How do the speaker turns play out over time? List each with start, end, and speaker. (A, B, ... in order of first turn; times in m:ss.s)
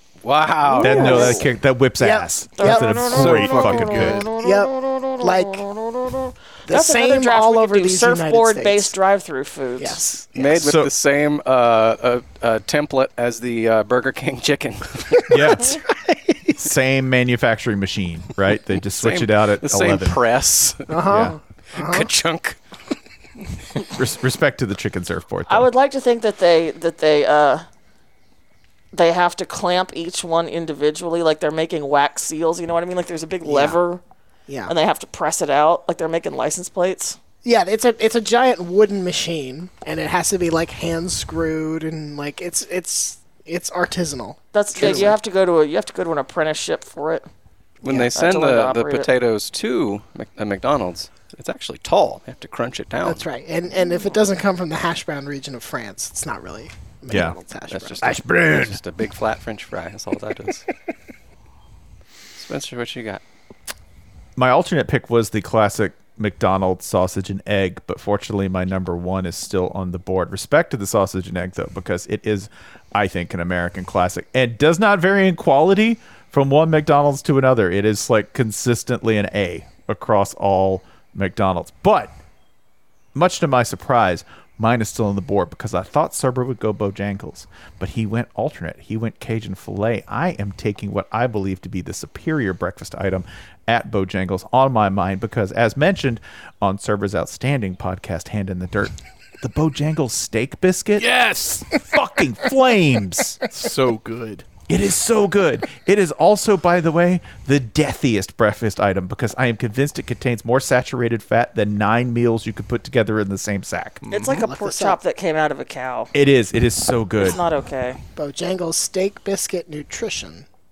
0:00.2-0:01.4 A
0:00.7-0:01.4 B
0:00.8-0:04.2 C
0:01.0-0:01.3 D
0:02.0-0:02.9 D
0:02.6-0:10.2 B
0:03.0-0:04.3 E
0:04.3-0:05.7 D
0:06.7-0:09.0 D
0:09.8-0:10.6 D
0:10.3-0:15.4 A
0:10.6-0:10.9 C
0:15.3-0:15.8 C
0:15.4-0:16.6 D
0:16.6-0:20.2 C
0:18.9-0:21.0 A
0:20.9-0:22.1 D
0:21.1-0:21.4 C
0:21.7-0:22.6 A
0:23.9-0:25.7 C
0:25.5-0:27.6 B
0:28.9-0:34.0 B
0:33.4-0:33.8 D
0:34.5-0:34.7 D
0:34.7-0:37.2 B
0:37.4-0:45.2 D
0:44.5-0:47.2 B
0:44.8-0:45.1 A
0:47.8-0:53.2 A
0:47.8-0:48.1 D
0:48.2-0:49.1 B
0:53.0-0:58.2 D
0:57.1-0:57.4 C
0:57.7-1:00.7 A
0:58.0-0:58.8 C
1:02.4-1:03.2 A
1:04.4-1:22.1 C
1:23.2-1:41.1 C
1:41.0-1:41.8 E
1:41.7-1:43.4 C
1:43.5-1:44.5 E
1:44.7-1:54.0 C
1:54.0-1:54.5 E
1:54.1-1:56.1 B
1:54.3-1:55.0 D
1:56.1-1:57.4 C
1:57.2-1:58.0 B
1:58.2-2:00.5 D